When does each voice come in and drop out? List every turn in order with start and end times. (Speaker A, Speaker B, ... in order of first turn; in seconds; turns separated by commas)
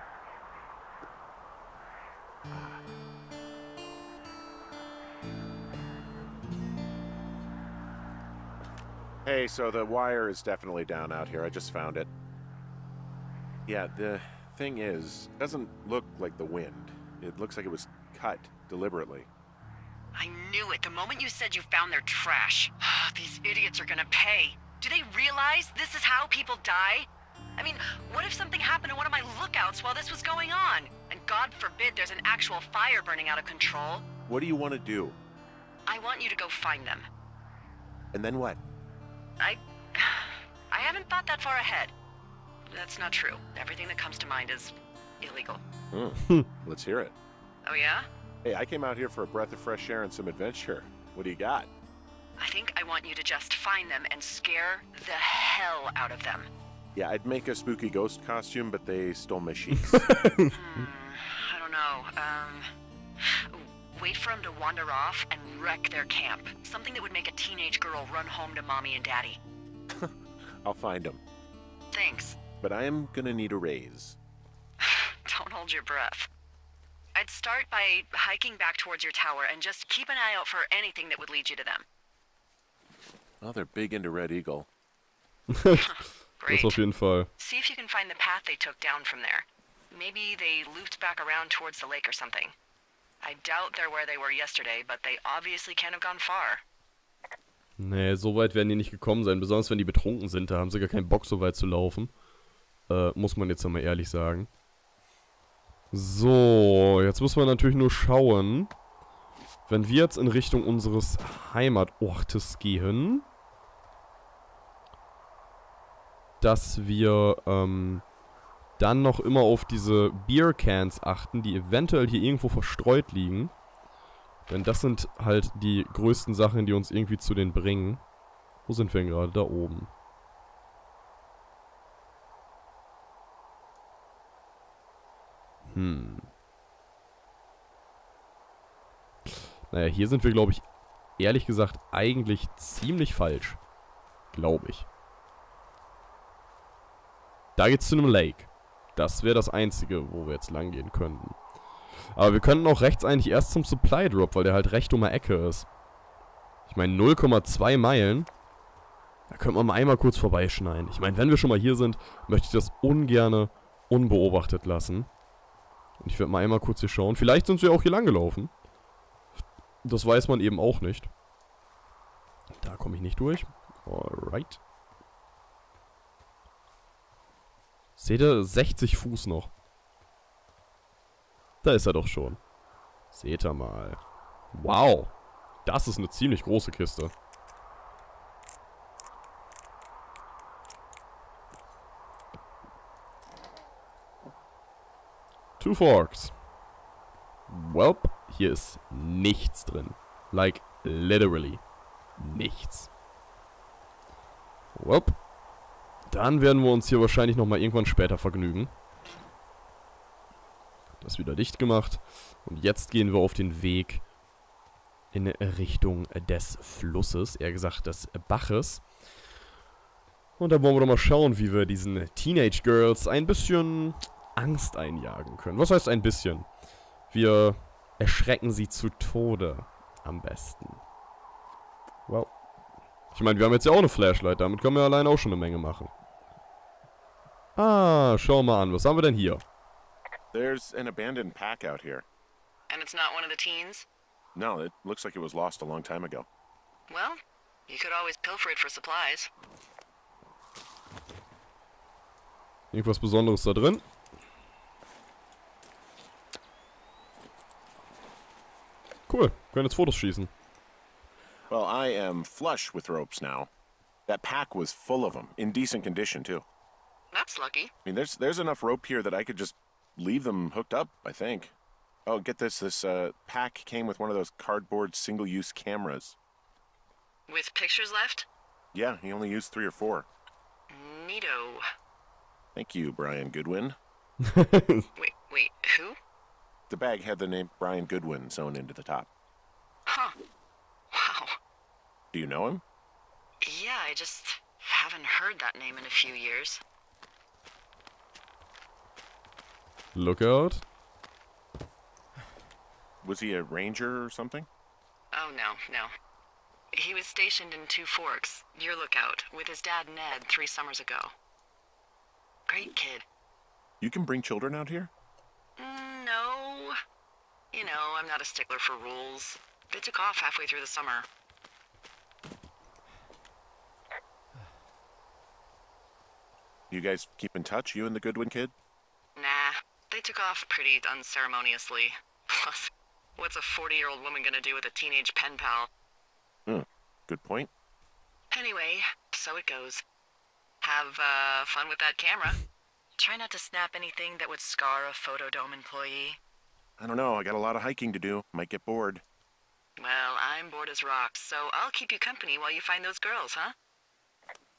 Speaker A: 2.5-2.8, Speaker A: 9.2-12.1, Speaker A: 13.7-19.3, Speaker B: 20.1-34.0, Speaker A: 34.3-35.2, Speaker B: 35.9-37.1, Speaker A: 38.1-38.6, Speaker B: 39.4-41.9, Speaker B: 42.7-45.6, Speaker A: 45.9-47.1, Speaker B: 47.6-48.1, Speaker A: 48.4-51.7, Speaker B: 52.4-56.5, Speaker A: 56.9-60.1, Speaker C: 60.0-60.5, Speaker B: 60.5-62.7, Speaker B: 63.2-69.4, Speaker A: 70.6-71.2, Speaker B: 71.9-72.4, Speaker A: 72.6-74.2, Speaker B: 74.8-76.3, Speaker B: 77.1-81.8, Speaker A: 83.4-84.7, Speaker C: 85.5-85.9, Speaker B: 85.7-86.8, Speaker C: 86.5-87.3, Speaker B: 87.4-92.5, Speaker B: 93.2-96.6, Speaker C: 97.8-102.1, Speaker C: 102.9-104.5, Speaker C: 105.9-108.7, Speaker C: 109.7-113.3, Speaker C: 116.4-118.0, Speaker C: 118.8-123.5, Speaker C: 124.5-128.0, Speaker C: 128.7-129.9, Speaker C: 135.7-136.3, Speaker C: 139.3-140.6, Speaker C: 141.2-143.6, Speaker C: 144.3-144.9, Speaker C: 147.6-151.4, Speaker C: 152.1-155.7, Speaker C: 156.7-158.3, Speaker C: 159.3-165.1, Speaker C: 166.0-168.5, Speaker C: 169.8-171.1, Speaker C: 172.6-174.6, Speaker C: 178.0-179.5, Speaker C: 181.6-182.4, Speaker C: 183.1-184.0, Speaker C: 184.5-185.1, Speaker C: 185.6-187.1, Speaker C: 195.6-196.3, Speaker C: 197.5-201.6, Speaker C: 202.2-202.9, Speaker C: 204.7-205.2, Speaker C: 206.1-208.7, Speaker C: 211.0-214.0, Speaker C: 215.1-218.8, Speaker C: 220.4-226.5, Speaker C: 227.1-230.8, Speaker C: 232.1-232.3, Speaker C: 233.1-235.9, Speaker C: 237.6-239.4, Speaker A: 240.3-242.0, Speaker B: 242.7-243.9, Speaker A: 244.3-246.3, Speaker B: 246.9-249.3, Speaker C: 252.7-253.8, Speaker C: 259.1-260.3, Speaker A: 261.5-263.5, Speaker A: 264.1-266.4, Speaker B: 267.1-267.7, Speaker A: 267.9-271.5, Speaker A: 272.1-276.1, Speaker B: 277.3-278.3, Speaker A: 278.7-280.1, Speaker B: 280.7-281.6, Speaker A: 282.5-283.8, Speaker C: 284.2-284.9, Speaker B: 284.9-286.0, Speaker A: 286.7-289.1, Speaker B: 289.9-290.1, Speaker B: 290.9-291.4, Speaker A: 292.1-292.6, Speaker B: 293.4-296.6, Speaker C: 299.9-300.6, Speaker A: 303.0-304.5, Speaker B: 305.1-305.9, Speaker B: 306.7-311.1, Speaker B: 312.5-313.0, Speaker A: 313.8-314.9, Speaker B: 315.6-316.8, Speaker B: 317.5-321.1, Speaker A: 326.7-328.5, Speaker B: 329.1-335.7, Speaker A: 336.4-337.5, Speaker B: 338.3-339.8, Speaker B: 340.6-342.4, Speaker B: 343.0-346.2, Speaker A: 346.8-349.0, Speaker B: 349.8-353.5